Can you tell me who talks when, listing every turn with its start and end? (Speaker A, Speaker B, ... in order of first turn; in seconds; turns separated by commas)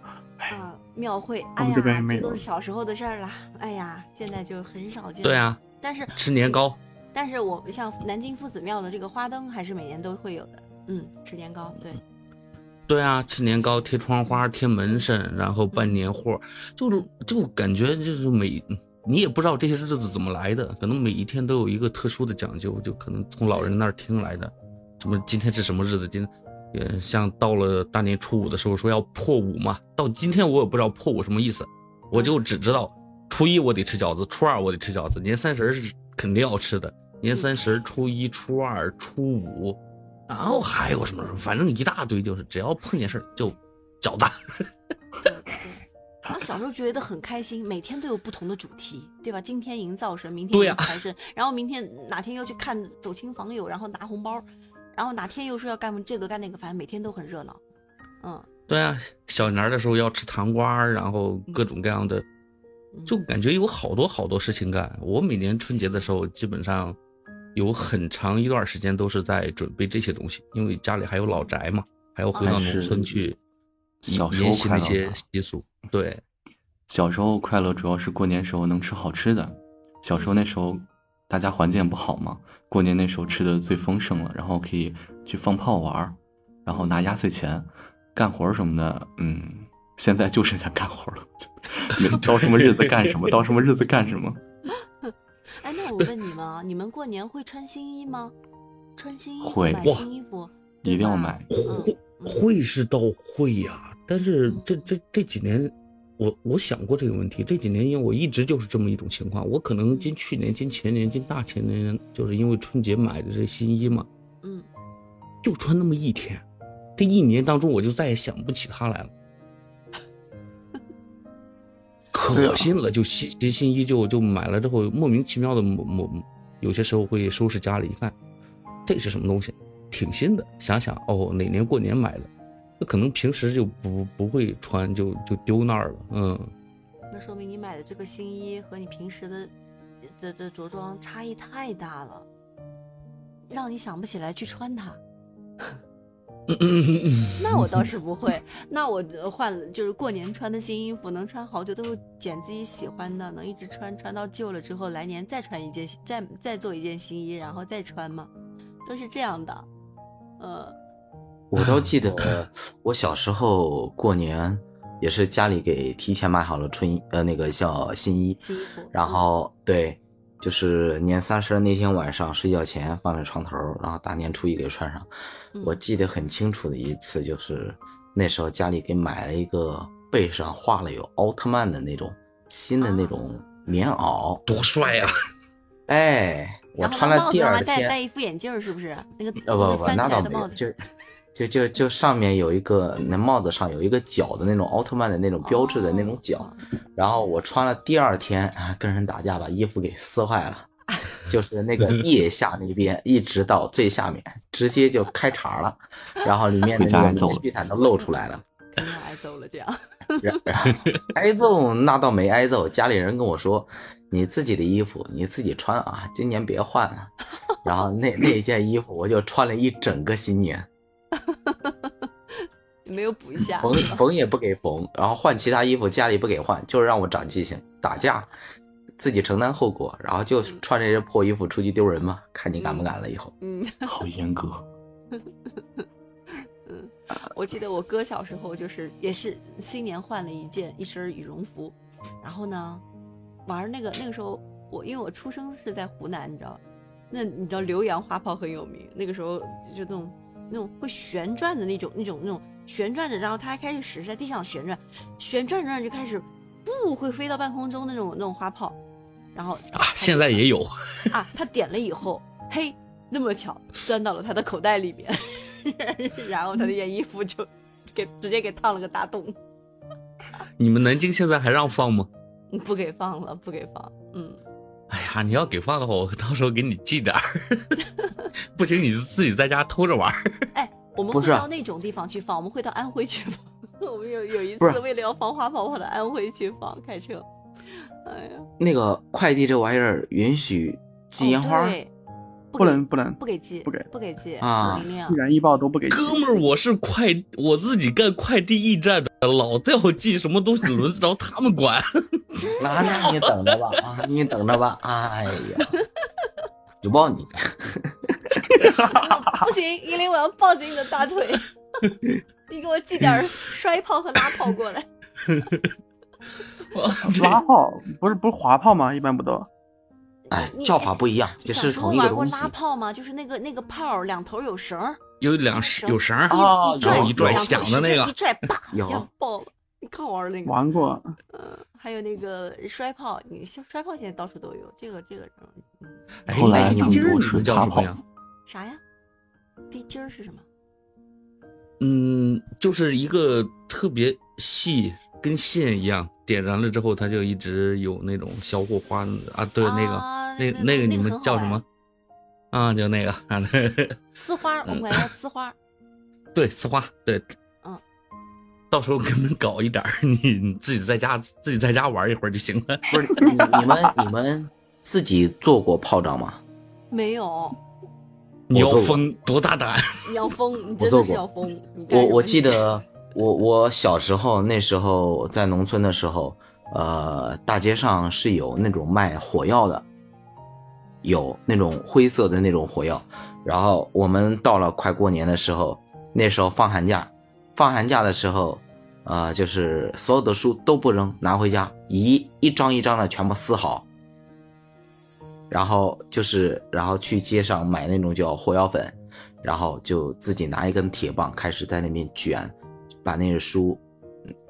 Speaker A: 0.5-12.0, Speaker B: 1.6-2.4, Speaker C: 5.2-5.6, Speaker C: 6.1-6.8, Speaker C: 12.9-39.8, Speaker A: 14.3-15.1, Speaker A: 15.7-16.0, Speaker A: 23.5-23.8, Speaker A: 32.1-32.4, Speaker A: 37.3-37.6, Speaker C: 40.3-44.3, Speaker A: 45.2-57.6, Speaker C: 50.5-51.0, Speaker A: 58.2-58.5, Speaker C: 58.7-62.2, Speaker A: 62.9-63.2, Speaker C: 63.1-67.0, Speaker C: 67.5-73.4, Speaker A: 71.3-71.5, Speaker A: 72.3-72.7, Speaker D: 72.4-73.3, Speaker D: 74.0-75.2, Speaker C: 74.1-76.2, Speaker D: 76.9-94.4, Speaker A: 86.7-87.1, Speaker C: 92.1-93.2, Speaker A: 95.0-98.3, Speaker A: 99.0-102.4, Speaker D: 99.4-99.9, Speaker D: 100.8-101.5, Speaker C: 101.5-114.1, Speaker A: 104.4-104.9, Speaker A: 109.9-110.1, Speaker A: 114.4-114.7, Speaker C: 115.4-116.4, Speaker C: 117.0-119.1, Speaker C: 122.1-128.1, Speaker B: 122.3-122.7, Speaker C: 128.8-132.3, Speaker C: 132.8-136.5, Speaker A: 137.1-139.5, Speaker A: 140.0-142.2, Speaker A: 143.5-145.0, Speaker C: 146.5-147.8, Speaker A: 147.4-158.3, Speaker A: 158.8-159.7, Speaker A: 160.4-160.7, Speaker E: 161.5-168.4, Speaker C: 161.6-162.4, Speaker A: 168.4-169.3, Speaker E: 168.9-175.1, Speaker A: 175.5-175.8, Speaker E: 175.6-184.4, Speaker A: 182.8-183.1, Speaker C: 184.4-185.2, Speaker E: 185.9-188.0, Speaker A: 186.8-190.6, Speaker E: 189.4-190.8, Speaker E: 191.3-208.4, Speaker A: 195.4-196.6, Speaker D: 206.8-207.4, Speaker A: 208.7-210.3, Speaker E: 210.2-220.7, Speaker A: 221.3-221.9, Speaker A: 222.4-224.0, Speaker E: 223.6-228.3, Speaker E: 229.0-233.3, Speaker A: 232.6-232.9, Speaker A: 233.4-233.9, Speaker D: 233.8-234.7, Speaker A: 235.1-235.8, Speaker A: 236.7-242.8, Speaker A: 243.4-258.8, Speaker A: 259.3-260.4, Speaker C: 259.7-261.1, Speaker A: 261.1-269.4, Speaker C: 270.6-272.1, Speaker A: 272.5-274.4, Speaker C: 274.9-277.8, Speaker C: 278.5-280.2, Speaker A: 280.5-287.2, Speaker E: 281.1-281.5, Speaker A: 287.8-288.5, Speaker E: 288.6-291.8, Speaker A: 291.2-291.9, Speaker A: 292.5-295.2, Speaker B: 292.6-293.9, Speaker E: 294.4-294.9, Speaker B: 295.1-296.2, Speaker C: 295.9-303.3, Speaker A: 302.4-303.2, Speaker E: 302.6-305.7, Speaker E: 306.8-308.4, Speaker B: 308.6-309.4, Speaker A: 308.6-311.4, Speaker A: 312.5-314.9, Speaker C: 315.2-315.6, Speaker C: 316.7-317.4, Speaker B: 317.0-319.5, Speaker A: 320.3-325.0, Speaker E: 320.3-322.5, Speaker C: 325.2-328.1, Speaker A: 325.5-330.6, Speaker E: 326.3-327.5, Speaker E: 328.7-329.1, Speaker B: 330.4-331.1, Speaker A: 331.3-336.2, Speaker C: 336.3-338.0, Speaker D: 336.3-338.0, Speaker A: 338.5-338.8, Speaker A: 339.7-340.4, Speaker C: 341.8-351.6, Speaker A: 349.6-351.6, Speaker C: 352.5-354.0, Speaker A: 354.1-355.5, Speaker C: 354.7-355.0, Speaker C: 356.3-357.2, Speaker C: 358.7-363.0, Speaker E: 362.9-366.4, Speaker A: 363.2-363.9, Speaker A: 366.9-367.6, Speaker C: 368.5-370.0, Speaker E: 368.5-369.0, Speaker A: 370.0-372.6, Speaker E: 370.8-371.2, Speaker E: 371.9-379.9, Speaker E: 381.0-393.9, Speaker E: 395.5-403.8